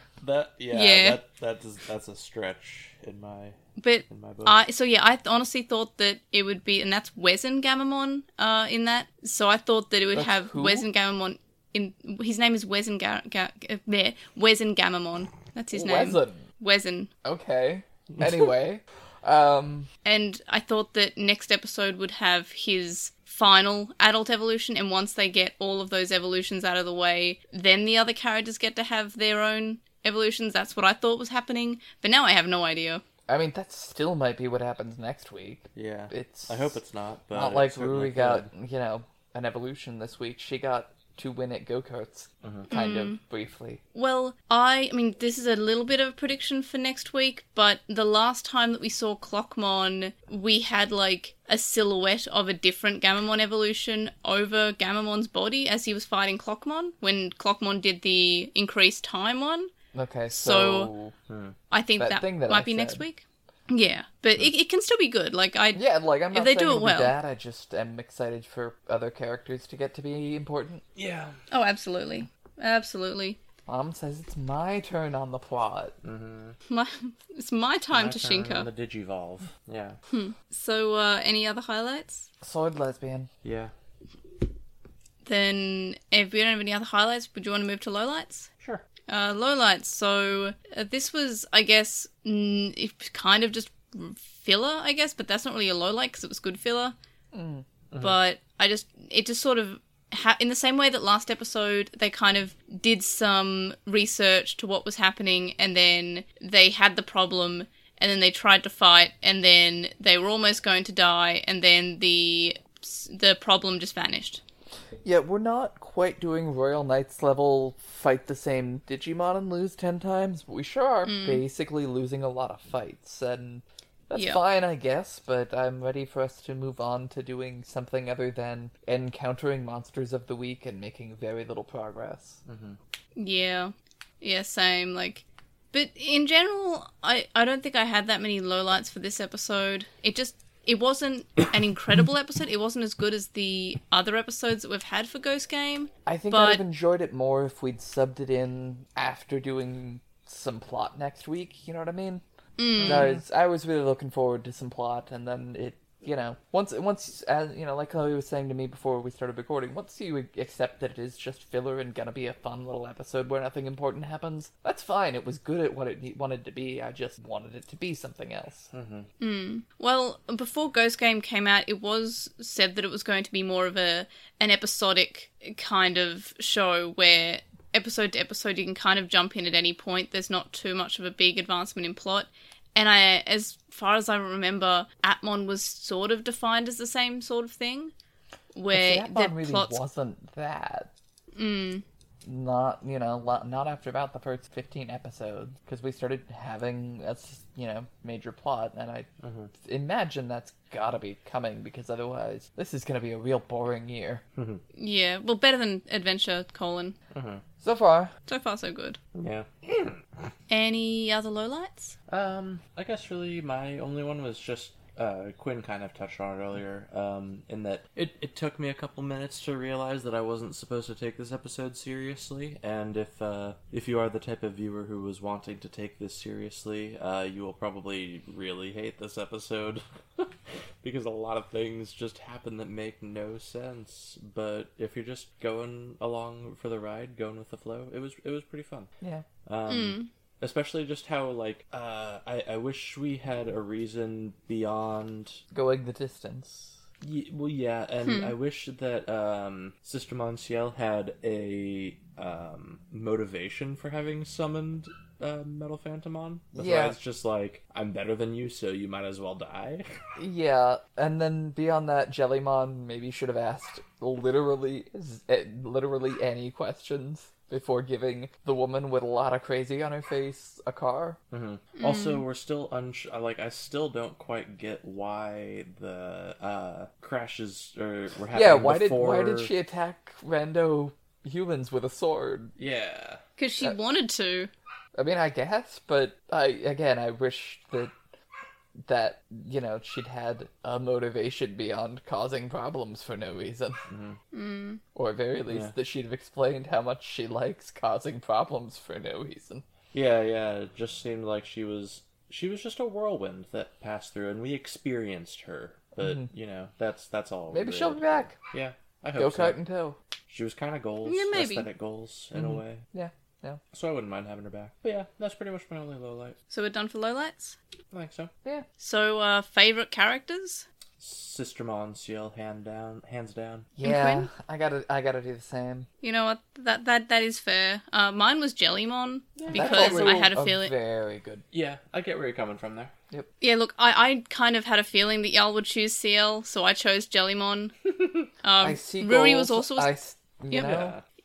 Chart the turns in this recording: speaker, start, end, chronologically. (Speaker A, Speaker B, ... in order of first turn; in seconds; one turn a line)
Speaker A: 0.2-4.6
Speaker B: 0.7-1.2
Speaker B: 3.8-17.1
Speaker C: 10.1-10.9
Speaker C: 15.7-16.4
Speaker C: 17.2-19.9
Speaker B: 20.1-33.0
Speaker C: 33.3-36.8
Speaker A: 35.8-38.5
Speaker C: 37.3-43.8
Speaker A: 42.4-42.7
Speaker B: 42.7-43.2
Speaker B: 44.0-59.7
Speaker C: 59.9-61.1
Speaker B: 60.3-60.9
Speaker A: 61.3-61.6
Speaker B: 61.7-67.2
Speaker C: 62.0-63.0
Speaker C: 65.8-70.8
Speaker A: 71.0-71.4
Speaker B: 71.5-73.4
Speaker C: 73.7-76.0
Speaker A: 76.0-76.6
Speaker B: 76.7-78.7
Speaker A: 77.9-80.0
Speaker B: 80.1-82.3
Speaker C: 82.4-83.3
Speaker A: 83.4-83.7
Speaker B: 85.2-88.5
Speaker B: 89.1-97.0
Speaker C: 97.3-97.7
Speaker B: 98.0-114.4
Speaker C: 115.0-132.4
Speaker B: 121.0-121.4
Speaker B: 124.2-124.4
Speaker A: 132.5-132.8
Speaker B: 133.2-146.6
Speaker C: 146.1-152.2
Speaker B: 152.6-153.1
Speaker A: 152.8-153.2
Speaker C: 152.8-168.7
Speaker A: 168.7-169.1
Speaker B: 169.2-187.9
Speaker B: 188.5-189.8
Speaker C: 188.7-190.9
Speaker B: 191.4-191.8
Speaker C: 192.2-204.2
Speaker A: 199.2-199.5
Speaker A: 204.4-204.6
Speaker B: 204.8-207.0
Speaker A: 207.1-207.4
Speaker C: 207.6-208.1
Speaker B: 208.3-209.0
Speaker A: 209.2-210.0
Speaker B: 210.5-211.9
Speaker A: 212.1-238.9
Speaker C: 239.0-239.3
Speaker A: 239.5-245.4
Speaker B: 239.7-240.1
Speaker C: 245.5-246.8
Speaker A: 247.0-259.9
Speaker B: 248.0-248.3
Speaker C: 256.5-257.0
Speaker C: 260.2-271.2
Speaker A: 271.3-279.5
Speaker B: 271.8-272.2
Speaker C: 278.3-282.5
Speaker A: 282.6-283.2
Speaker B: 283.4-284.5
Speaker C: 284.9-287.9
Speaker C: 288.9-293.8
Speaker A: 293.9-294.2
Speaker B: 294.3-294.8
Speaker C: 294.9-299.6
Speaker A: 299.9-309.6
Speaker C: 306.0-306.3
Speaker C: 307.5-308.4
Speaker C: 309.2-310.0
Speaker A: 310.3-312.8
Speaker B: 311.1-311.7
Speaker C: 312.3-313.6
Speaker A: 313.7-316.4
Speaker B: 316.5-317.6
Speaker A: 317.9-318.3
Speaker B: 318.8-320.6
Speaker A: 321.0-323.7
Speaker C: 323.8-325.9
Speaker B: 323.8-324.3
Speaker B: 326.0-330.7
Speaker A: 329.4-330.2
Speaker C: 329.5-331.4
Speaker A: 331.5-332.9
Speaker B: 333.4-337.7
Speaker A: 338.0-338.3
Speaker B: 338.4-339.9
Speaker C: 338.6-340.9
Speaker A: 340.5-341.0